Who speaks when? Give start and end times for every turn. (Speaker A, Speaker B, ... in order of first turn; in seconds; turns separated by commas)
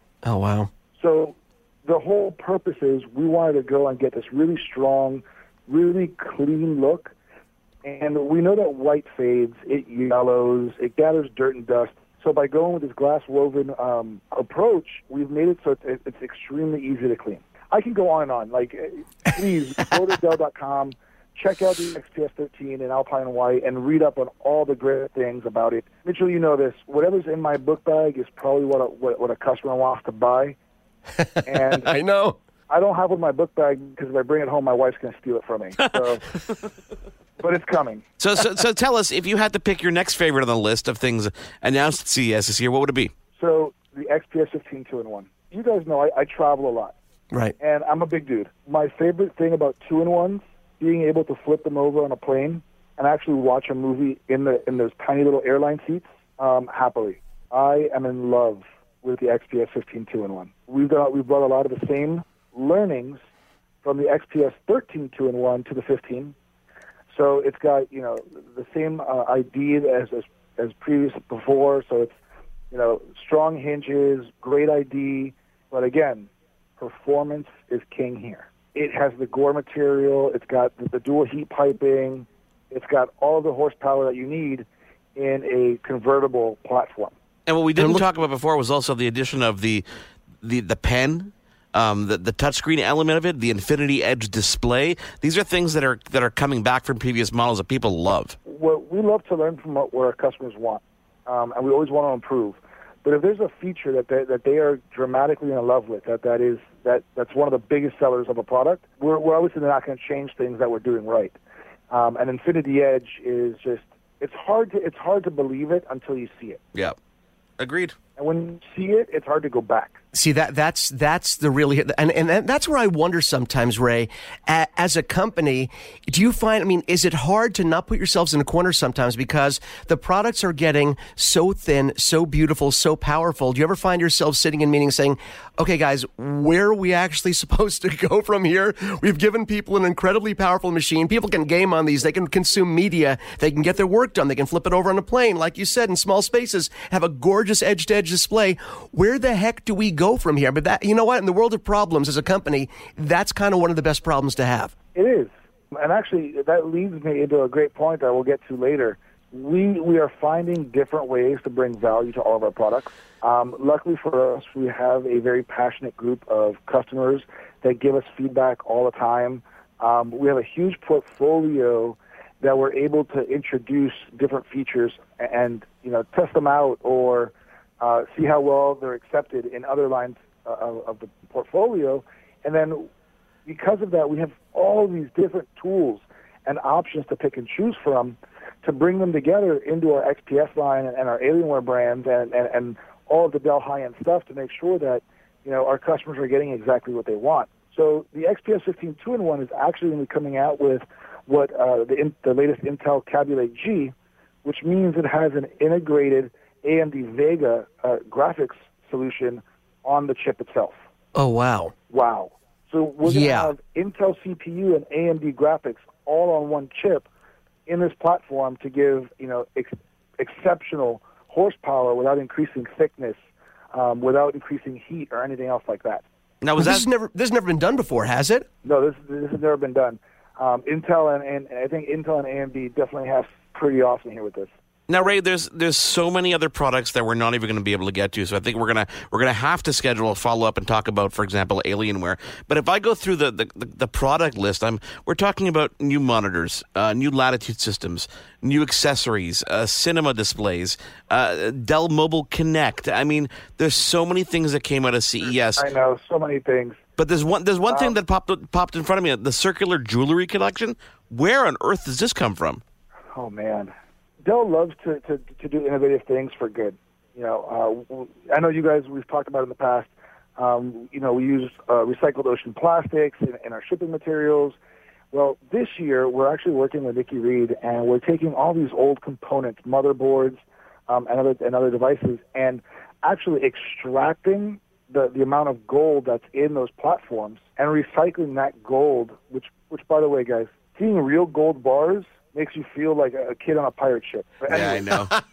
Speaker A: 0.2-0.7, Speaker B: 1.0-7.1, Speaker B: 7.8-30.6, Speaker A: 31.2-32.4, Speaker B: 31.4-31.9, Speaker B: 32.7-36.2, Speaker B: 37.4-38.0, Speaker C: 38.2-43.1, Speaker B: 43.4-46.9, Speaker B: 47.6-63.2, Speaker B: 63.8-66.3, Speaker B: 67.1-72.2, Speaker B: 72.7-87.1, Speaker C: 87.5-89.8, Speaker A: 87.8-88.1, Speaker C: 90.4-98.3, Speaker B: 98.5-111.3, Speaker B: 111.9-116.6, Speaker C: 117.6-118.0, Speaker B: 118.2-120.0, Speaker A: 120.1-154.7, Speaker B: 154.9-182.9, Speaker B: 183.4-210.8, Speaker A: 211.1-211.7, Speaker B: 211.9-217.1, Speaker A: 213.1-213.5, Speaker B: 217.7-223.2, Speaker B: 223.7-226.0, Speaker C: 226.4-226.8, Speaker A: 226.6-228.5, Speaker B: 228.6-234.5, Speaker C: 234.9-255.7, Speaker B: 255.2-256.8, Speaker C: 257.0-262.6, Speaker B: 257.6-258.0, Speaker B: 263.1-263.7, Speaker B: 264.2-274.6, Speaker B: 275.1-295.0, Speaker C: 294.5-295.1